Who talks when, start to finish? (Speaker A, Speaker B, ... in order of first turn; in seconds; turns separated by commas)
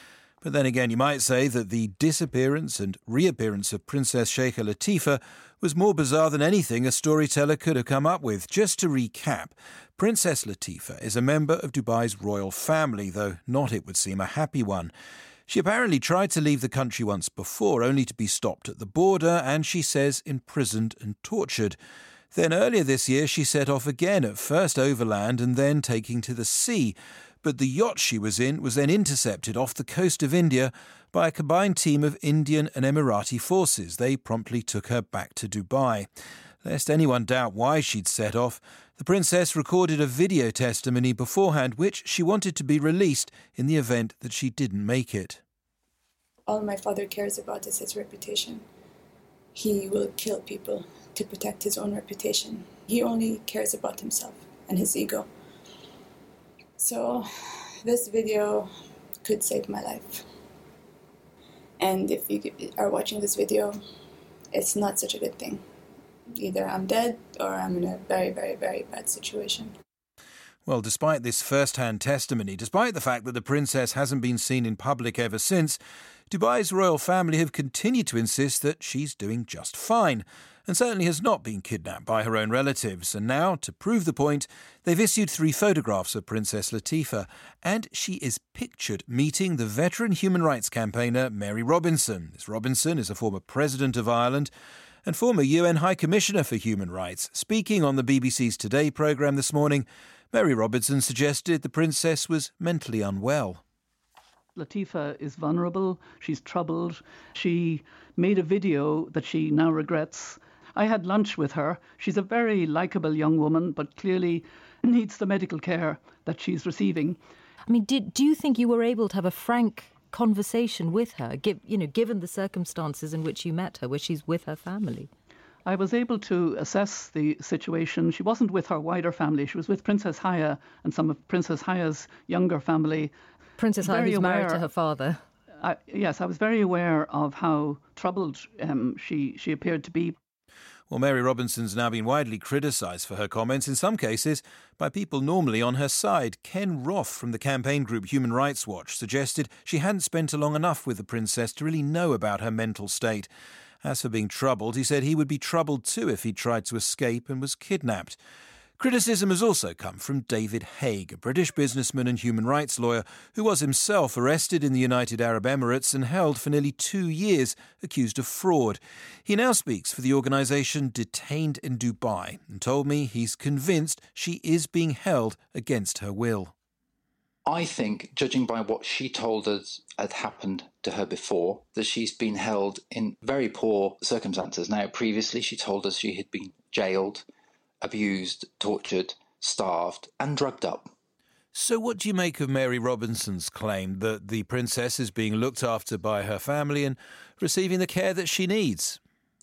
Speaker A: 0.4-14.9, Speaker A: 15.5-21.8, Speaker A: 22.3-36.1, Speaker A: 36.6-45.4, Speaker B: 46.5-48.6, Speaker B: 49.5-55.3, Speaker B: 56.8-57.3, Speaker B: 57.8-58.7, Speaker B: 59.2-60.2, Speaker B: 61.8-63.8, Speaker B: 64.5-65.6, Speaker B: 66.3-69.7, Speaker A: 70.7-75.8, Speaker A: 76.3-94.5, Speaker A: 95.0-103.6, Speaker C: 104.5-117.2, Speaker D: 117.7-125.1, Speaker C: 125.6-133.1, Speaker D: 133.6-135.2, Speaker C: 133.8-134.7, Speaker C: 135.6-140.2, Speaker A: 140.9-153.3, Speaker A: 153.8-158.2, Speaker A: 158.8-176.5, Speaker E: 177.5-187.2, Speaker E: 187.8-190.9, Speaker A: 191.5-199.0